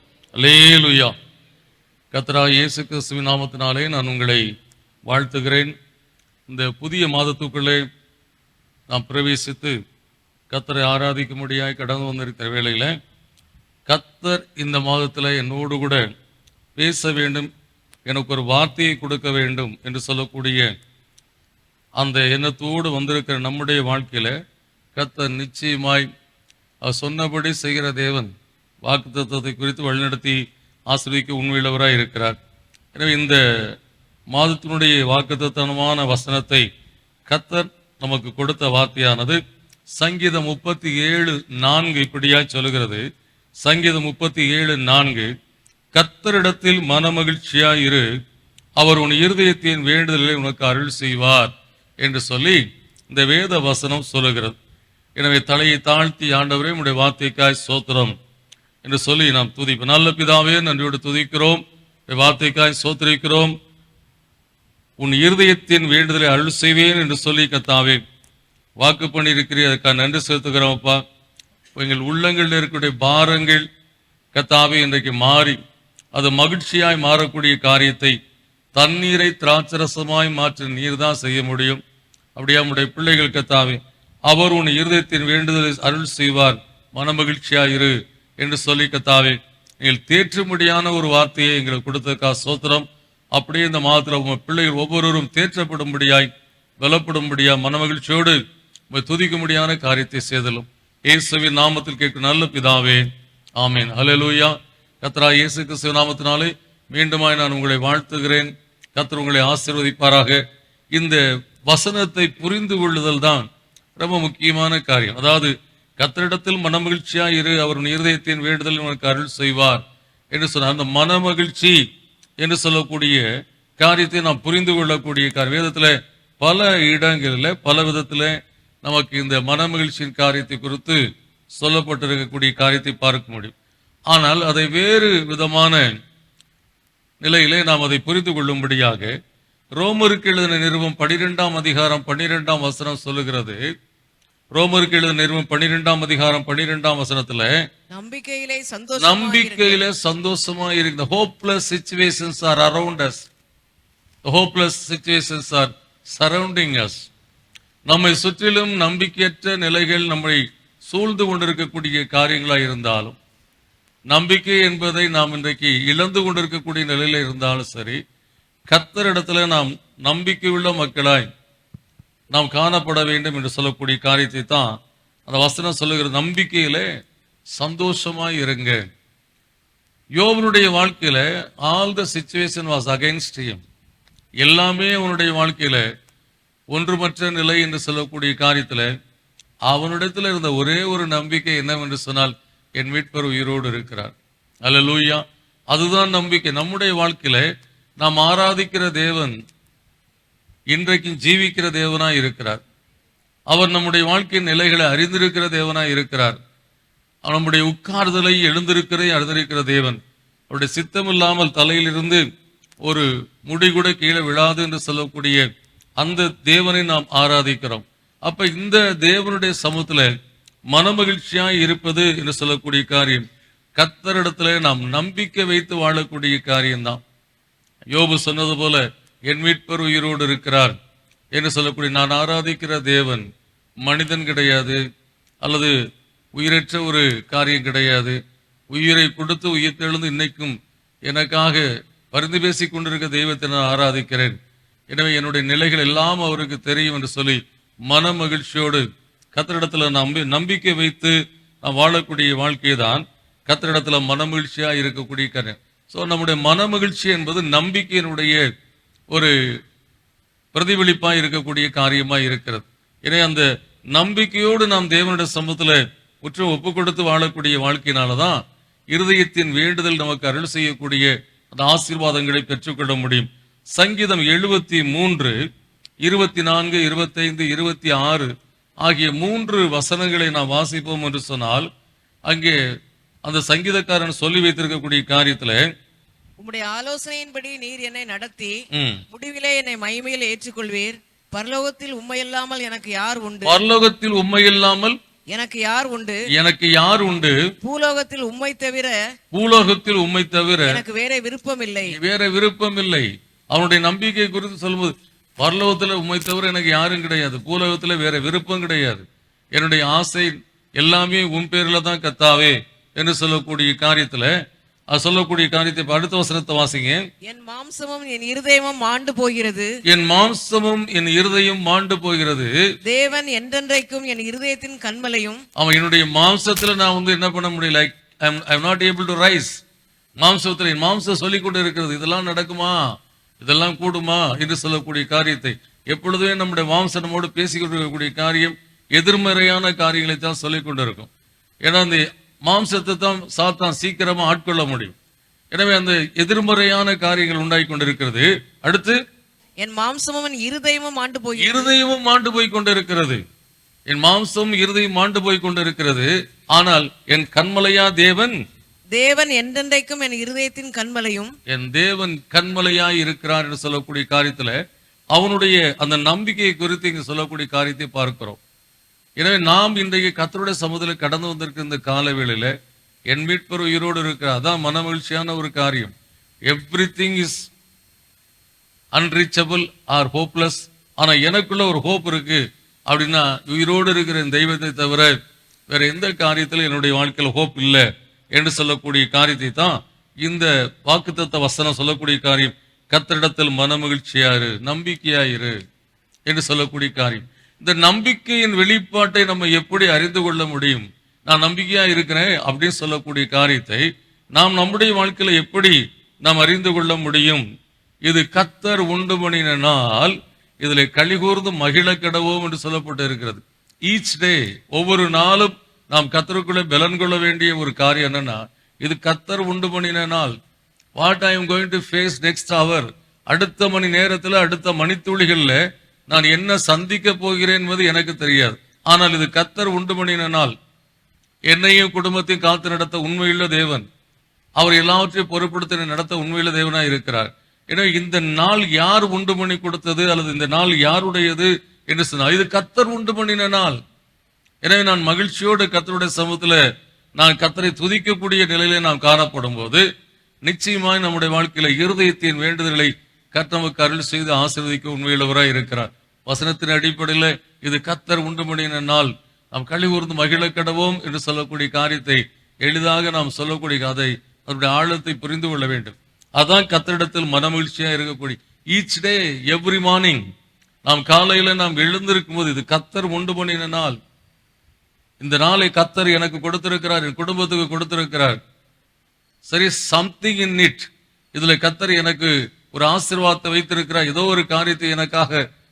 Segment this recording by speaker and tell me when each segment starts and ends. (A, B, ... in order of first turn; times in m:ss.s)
0:00.4-0:01.1 A
0:02.1-0:04.4 A
0:05.1-0:05.7 A
0:06.5-0:07.8 A
0:08.9-0:09.8 A
0:10.5-0:13.0 A
0:13.9-0:16.0 A
0:16.8-0:17.5 A
0:18.1-0:20.7 A
0:22.0-0:24.3 A
0:25.0-0:26.1 A
0:26.8-0:28.3 A
0:28.8-0:30.4 A
0:30.9-0:32.4 A
0:33.0-0:33.4 A
0:34.3-0:36.6 A
0:37.3-0:39.4 A
0:40.0-0:43.0 A
0:43.6-0:45.3 A
0:46.0-0:48.1 A
0:48.8-0:54.6 A
0:55.2-0:58.2 A
0:58.8-1:03.6 A
1:05.0-1:08.0 A
1:08.8-1:11.0 A
1:11.8-1:13.7 A
1:14.3-1:15.6 A
1:16.1-1:18.1 A
1:18.8-1:21.8 A
1:22.4-1:36.3 A
1:36.8-1:38.4 A
1:38.9-1:43.0 A
1:43.6-1:50.4 A
1:50.9-1:53.5 A
1:54.0-1:59.8 A
2:00.3-2:01.8 A
2:02.4-2:03.2 A
2:03.8-2:11.0 A
2:11.6-2:13.5 A
2:14.1-2:15.9 A
2:17.2-2:19.1 A
2:19.8-2:23.6 A
2:24.5-2:27.5 A
2:27.9-2:29.8 B
2:29.0-2:33.3 A
2:34.2-2:37.1 A
2:37.9-2:43.2 A
2:44.1-2:48.0 A
2:48.7-2:51.3 A
2:52.3-2:54.8 A
2:55.3-2:56.9 A
2:57.6-2:58.8 A
3:00.2-3:03.6 A
3:04.4-3:05.8 A
3:06.7-3:08.9 A
3:09.7-3:14.1 A
3:14.6-3:17.5 A
3:18.0-3:19.3 A
3:20.7-3:22.6 A
3:23.5-3:26.4 A
3:27.2-3:30.0 A
3:30.5-3:32.2 A
3:32.8-3:35.4 A
3:36.0-3:40.1 A
3:40.7-3:43.2 A
3:43.8-3:47.0 A
3:47.9-3:50.8 A
3:51.3-3:53.3 A
3:53.8-3:54.8 A
3:55.4-3:55.7 A
3:56.4-3:58.2 A
3:58.7-4:04.4 A
4:04.9-4:18.4 A
4:20.5-4:28.4 A
4:28.9-4:35.4 A
4:36.0-4:38.3 A
4:38.8-4:41.7 A
4:42.3-4:42.6 A
4:43.2-4:45.6 A
4:46.4-4:48.6 B
4:48.7-4:49.0 A
4:49.1-4:53.6 B
4:53.4-4:55.0 A
4:55.3-4:56.2 B
4:56.3-4:57.4 A
4:57.6-4:59.0 B
4:59.3-5:00.8 A
5:00.7-5:02.0 B
5:01.9-5:14.3 A
5:14.9-5:17.0 A
5:17.2-5:19.7 B
5:19.9-5:22.5 A
5:22.9-5:25.4 B
5:25.6-5:29.6 A
5:30.2-5:32.8 A
5:33.4-5:41.1 A
5:41.6-5:44.9 A
5:45.5-5:49.0 A
5:49.6-5:51.8 B
5:51.4-5:53.2 A
5:53.9-5:58.4 A
5:59.0-6:01.3 B
6:01.5-6:04.6 A
6:05.1-6:08.4 A
6:09.2-6:12.5 A
6:13.1-6:15.9 A
6:16.5-6:17.5 A
6:18.9-6:25.1 A
6:25.7-6:35.6 A
6:36.3-6:43.8 A
6:44.4-6:47.4 A
6:48.0-7:00.4 A
7:01.0-7:05.6 A
7:06.1-7:10.5 A
7:11.5-7:13.9 A
7:14.6-7:23.8 A
7:24.6-7:26.6 A
7:27.2-7:29.8 A
7:30.5-7:50.2 A
7:50.8-7:54.0 A
7:55.2-7:58.4 A
7:59.5-8:05.4 A